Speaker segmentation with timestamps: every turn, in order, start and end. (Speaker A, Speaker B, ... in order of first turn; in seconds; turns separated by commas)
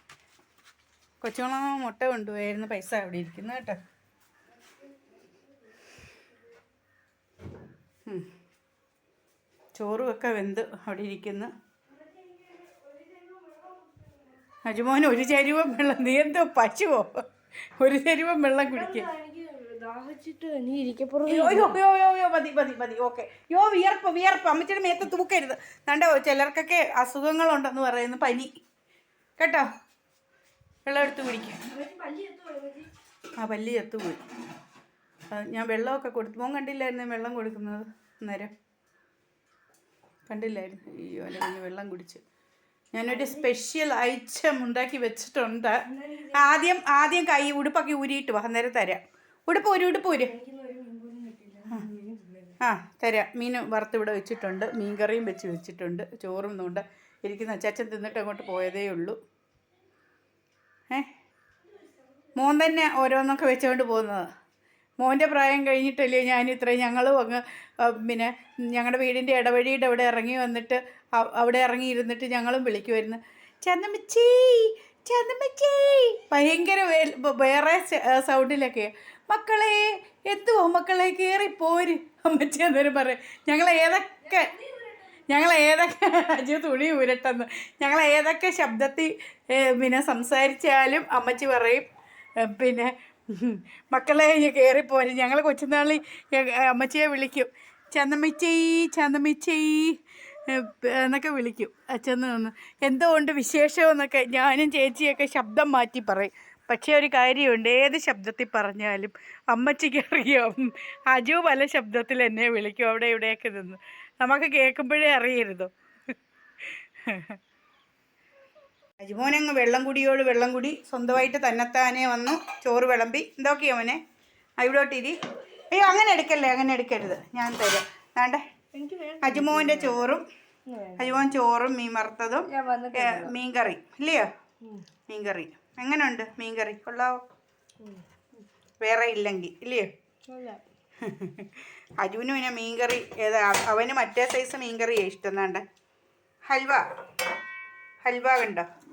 Speaker A: 1.2-3.8, Speaker A: 9.8-11.5, Speaker B: 12.0-14.2, Speaker A: 14.6-17.2, Speaker A: 17.8-19.1, Speaker B: 18.7-21.8, Speaker A: 21.3-28.5, Speaker A: 29.4-29.7, Speaker A: 30.9-31.6, Speaker B: 31.7-32.9, Speaker A: 33.4-34.2, Speaker A: 35.3-38.5, Speaker A: 40.3-42.2, Speaker A: 42.9-50.3, Speaker B: 43.1-43.4, Speaker B: 45.9-46.5, Speaker B: 50.2-52.6, Speaker A: 52.6-59.2, Speaker A: 62.4-64.3, Speaker A: 65.0-91.8, Speaker B: 84.6-84.9, Speaker A: 92.4-115.7, Speaker A: 117.0-117.4, Speaker A: 119.0-124.0, Speaker A: 124.6-128.4, Speaker B: 128.7-130.0, Speaker A: 129.2-130.2, Speaker B: 130.7-131.2, Speaker A: 131.0-134.3, Speaker B: 132.5-133.3, Speaker A: 135.1-137.2, Speaker B: 137.8-138.0, Speaker A: 138.8-139.9, Speaker B: 140.3-140.6, Speaker A: 141.0-145.6, Speaker A: 146.5-146.8, Speaker A: 148.0-148.7